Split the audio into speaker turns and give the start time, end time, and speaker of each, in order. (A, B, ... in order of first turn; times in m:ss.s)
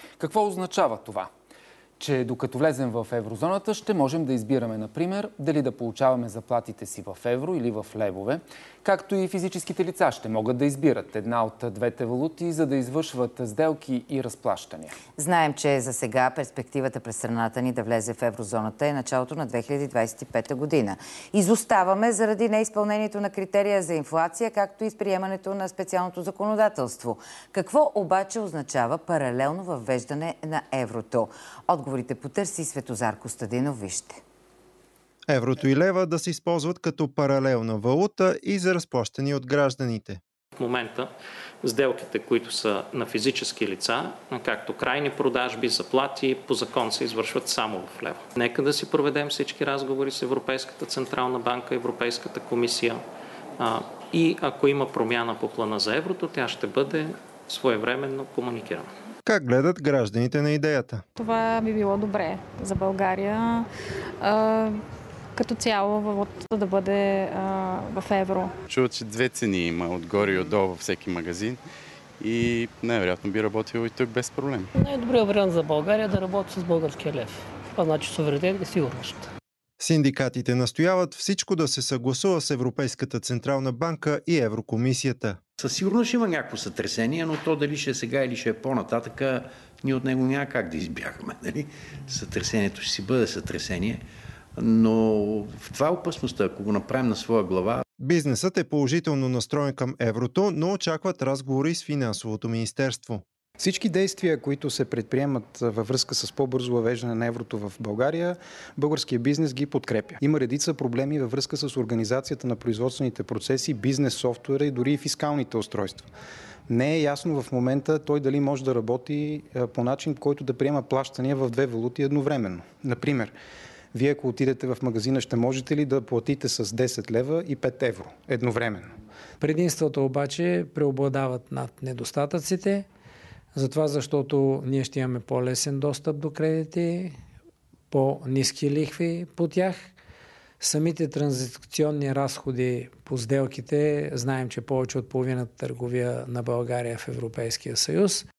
0:00.2-0:01.3 A
0:02.0-0:14.9 A
0:15.2-0:34.2 B
0:35.3-0:40.2 C
0:40.6-0:41.1 D
0:41.6-0:53.0 D
0:53.6-0:58.9 D
0:59.2-1:01.0 C
1:01.2-1:04.8 E
1:05.3-1:08.5 E
1:08.7-1:11.6 F
1:12.2-1:14.7 F
1:14.8-1:19.3 G
1:19.8-1:25.4 C
1:25.6-1:34.0 H
1:34.6-1:37.8 H
1:38.0-1:43.2 C
1:43.6-1:56.1 I
1:56.7-2:03.3 I
2:03.9-2:08.9 I
2:09.4-2:12.8 J
2:13.5-2:17.2 J
2:17.9-2:19.9 J
2:20.6-2:28.3 J